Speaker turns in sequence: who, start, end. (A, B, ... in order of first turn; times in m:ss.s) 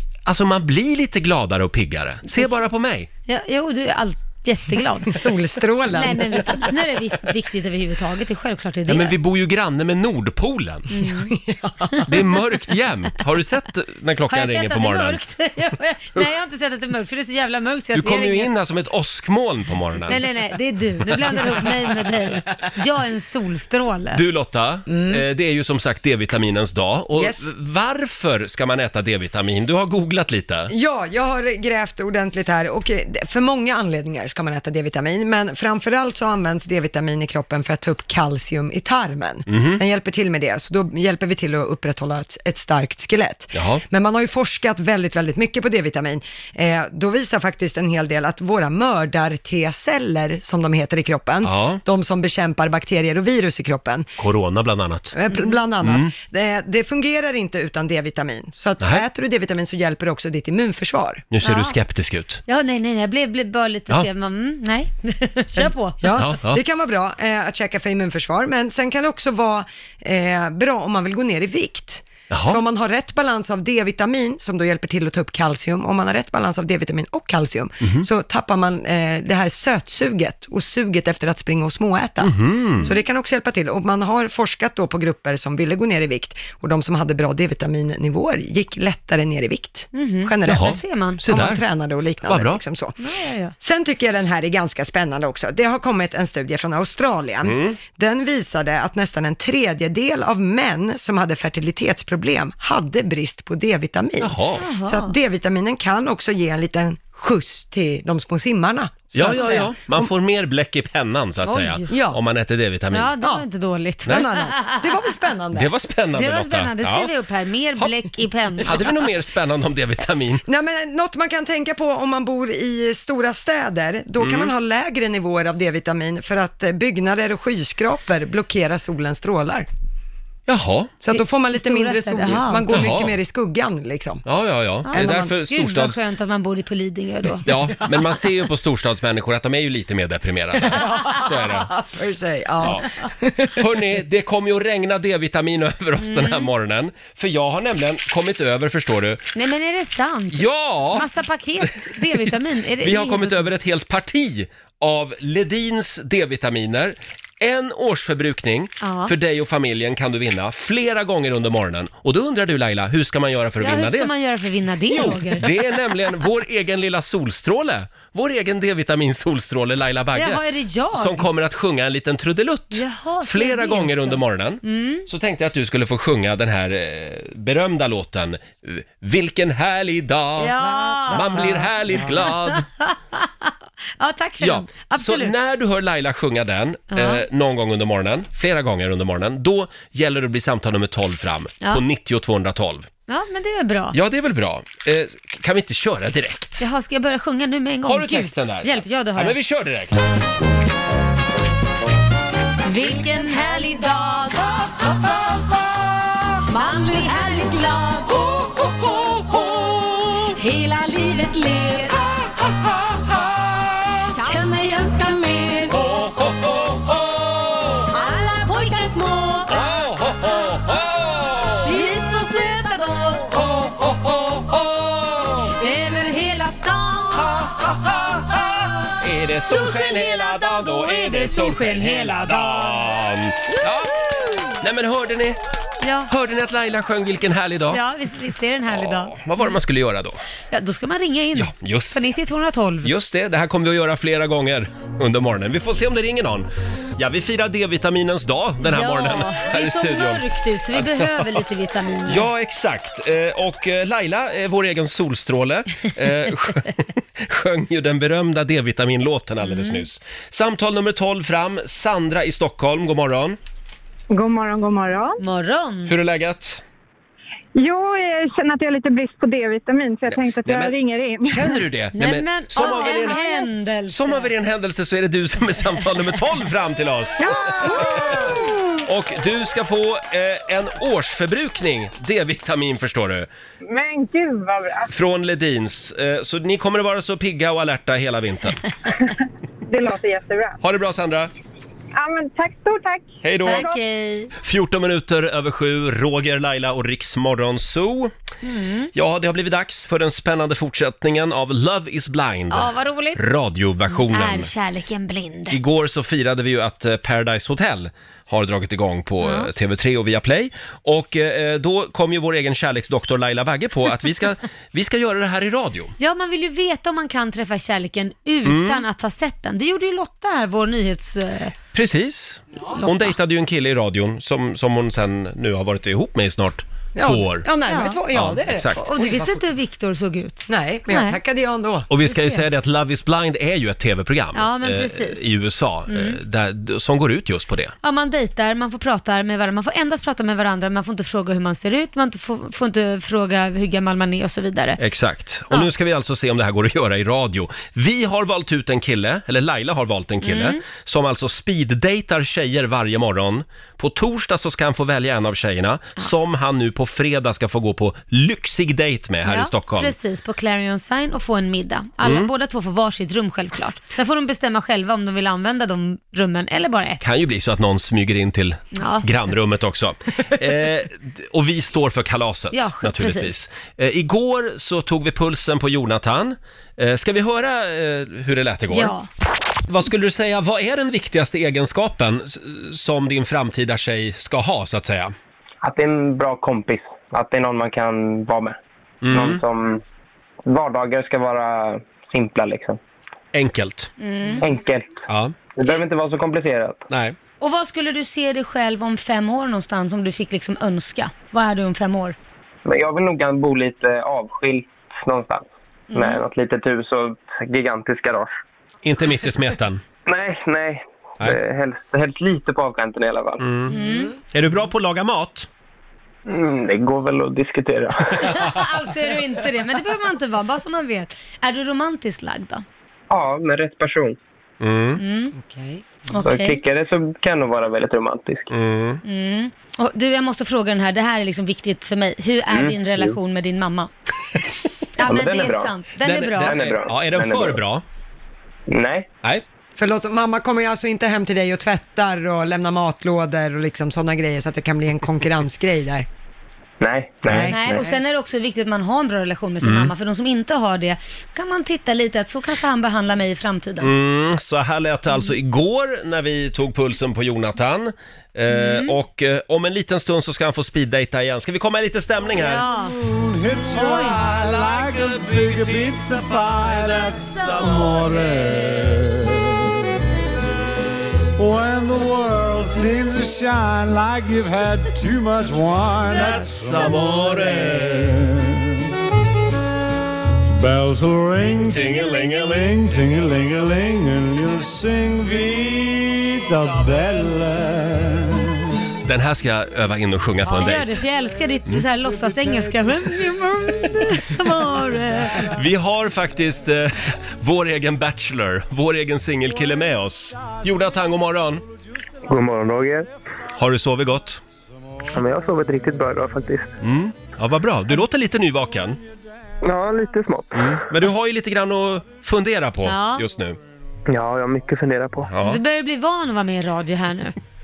0:00.2-0:03.1 A
0:03.3-0:05.3 B
0:05.1-0:06.7 C
0:05.9-0:09.2 B
0:08.9-0:10.9 A
0:10.9-0:11.3 B
0:11.1-0:12.1 C
0:12.1-0:15.2 A
0:14.3-0:18.5 B
0:17.9-0:20.2 A
0:20.1-0:24.2 B
0:24.1-0:30.7 A
0:24.9-0:25.2 C
0:27.1-0:27.4 C
0:30.7-0:54.1 C
0:39.5-0:39.8 A
0:43.5-0:43.8 A
0:51.4-0:51.8 A
0:54.2-0:55.2 A
0:55.1-1:01.2 C
0:55.8-0:56.1 A
1:01.3-1:02.4 A
1:01.4-1:01.8 B
1:02.5-1:06.0 B
1:05.6-1:33.0 C
1:06.1-1:06.6 A
1:12.3-1:12.6 A
1:17.8-1:18.1 A
1:22.2-1:22.9 A
1:29.9-1:31.2 B
1:30.4-1:31.6 A
1:32.2-1:32.6 A
1:33.0-1:33.5 B
1:33.6-1:49.7 C
1:37.4-1:37.8 A
1:44.2-1:44.7 A
1:44.6-1:45.1 B
1:49.1-1:53.1 A
1:51.4-1:52.0 B
1:51.9-1:52.2 C
1:52.9-1:54.9 B
1:53.2-1:53.4 C
1:54.0-1:55.7 C
1:55.5-1:57.1 A
1:56.1-1:58.9 B
1:58.6-2:00.4 A
2:00.4-2:09.7 C
2:04.2-2:04.5 A
2:10.5-2:10.9 A
2:11.0-2:14.2 C
2:11.1-2:12.8 B
2:12.7-2:13.1 A
2:14.2-2:16.0 A
2:14.9-2:17.5 B
2:14.9-2:15.3 C
2:17.4-2:21.7 A
2:20.6-2:23.6 C
2:23.5-2:29.3 A
2:26.0-2:26.5 B
2:29.3-2:33.5 B
2:30.3-2:31.0 A
2:31.7-2:32.2 A
2:32.8-2:44.1 A
2:38.8-2:39.1 B
2:43.6-2:45.5 B
2:44.9-3:00.6 A
2:50.1-2:51.3 B
2:52.7-2:55.1 B
3:00.4-3:05.3 B
3:00.7-3:01.6 C
3:01.1-3:02.6 A
3:04.4-3:12.9 A
3:06.9-3:07.2 B
3:13.1-3:14.0 B
3:13.9-3:16.6 A
3:16.6-3:19.4 B
3:17.8-3:20.0 A
3:22.6-3:25.1 B
3:26.4-3:29.1 B
3:30.1-3:32.5 B
3:34.1-3:35.8 B
3:35.7-3:37.9 A
3:37.9-3:39.7 B
3:39.5-3:41.7 A
3:41.6-3:43.5 B
3:43.4-3:45.5 A
3:45.5-3:47.5 B
3:47.3-3:54.0 A
3:49.5-3:52.9 B
3:54.5-3:55.4 A
3:55.8-3:56.1 B
3:56.1-3:57.8 A
3:57.7-3:59.5 B
3:58.7-4:00.2 A
4:00.5-4:02.9 B
4:01.4-4:02.0 A
4:02.8-4:11.4 A
4:08.6-4:12.3 B
4:12.1-4:23.4 A
4:19.4-4:19.8 B
4:24.1-4:25.2 D
4:25.2-4:25.9 B
4:25.9-4:26.6 A
4:27.6-4:31.6 D
4:30.1-4:33.2 A
4:31.9-4:34.3 B
4:33.9-4:38.3 A
4:37.2-4:38.6 C
4:38.8-4:43.3 A
4:43.6-4:44.9 D
4:44.9-4:48.6 A
4:49.6-4:50.6 D
4:50.6-4:51.3 A
4:51.9-4:53.8 D
4:53.2-4:53.6 A
4:53.4-4:54.3 B
4:54.4-4:58.1 A
4:58.4-4:58.9 B
4:58.9-5:04.5 A
5:02.5-5:03.2 B
5:03.9-5:05.6 B
5:05.5-5:15.9 A
5:09.2-5:09.5 B
5:16.0-5:21.5 B
5:18.4-5:18.8 A
5:21.7-5:27.5 A
5:22.8-5:23.2 B
5:26.9-5:29.4 C
5:27.7-5:28.0 B
5:28.1-5:28.8 A
5:28.7-5:31.2 B
5:30.5-5:31.9 C
5:31.9-5:37.7 A
5:32.0-5:32.4 B
5:34.3-5:35.2 B
5:35.9-5:36.2 B
5:37.8-5:44.8 B
5:44.8-5:59.9 A
5:50.2-5:50.6 B
5:59.2-6:07.0 B
6:02.0-6:02.3 A
6:07.0-6:18.9 A
6:08.7-6:09.1 B
6:12.5-6:13.3 B
6:18.7-6:19.1 B
6:19.7-6:25.1 A
6:25.6-6:28.6 E
6:29.0-6:29.4 A
6:29.1-6:29.8 E
6:30.4-6:32.8 E
6:33.3-6:33.9 A
6:34.0-6:34.5 B
6:34.4-6:35.0 E
6:35.1-6:35.3 A
6:35.5-6:36.8 E
6:36.9-6:37.2 A
6:37.4-6:42.2 B
6:42.6-6:48.3 E
6:45.9-6:46.2 B
6:48.8-6:49.8 A
6:50.0-6:53.4 E
6:53.4-6:53.7 A
6:53.7-6:54.1 B
6:53.7-6:54.1 C
6:54.3-6:55.5 A
6:56.3-6:58.5 E
6:58.2-7:02.6 B
7:03.1-7:04.2 E
7:04.6-7:05.0 A
7:05.0-7:05.3 B
7:05.3-7:05.8 C
7:06.1-7:06.6 B
7:06.2-7:08.5 E
7:08.5-7:09.0 A
7:09.0-7:13.9 B
7:12.5-7:13.2 E
7:15.0-7:16.6 B
7:15.0-7:15.7 E
7:16.0-7:17.8 A
7:16.4-7:17.6 E
7:18.7-7:19.1 E
7:19.8-7:26.0 C
7:26.8-7:27.8 E
7:27.3-7:28.0 C
7:27.5-7:33.9 B
7:29.6-7:29.9 A
7:33.8-7:42.6 A
7:38.5-7:38.9 B
7:42.3-7:43.0 B
7:42.8-7:49.6 F
7:43.7-7:44.2 B
7:44.5-7:45.6 A
7:46.7-7:48.0 A
7:51.4-7:58.6 F
7:56.0-7:58.2 A
8:00.5-8:08.6 F
8:01.6-8:02.8 A
8:09.0-8:11.0 A
8:10.5-8:15.4 B
8:12.0-8:14.9 F
8:15.4-8:21.6 A
8:22.2-8:23.1 E
8:23.6-8:24.4 A
8:25.1-8:26.7 E
8:26.8-8:29.0 A
8:29.6-8:30.7 E
8:30.5-8:33.6 A
8:32.8-8:33.2 B
8:34.1-8:35.3 E
8:35.3-8:35.6 A
8:35.4-8:37.4 B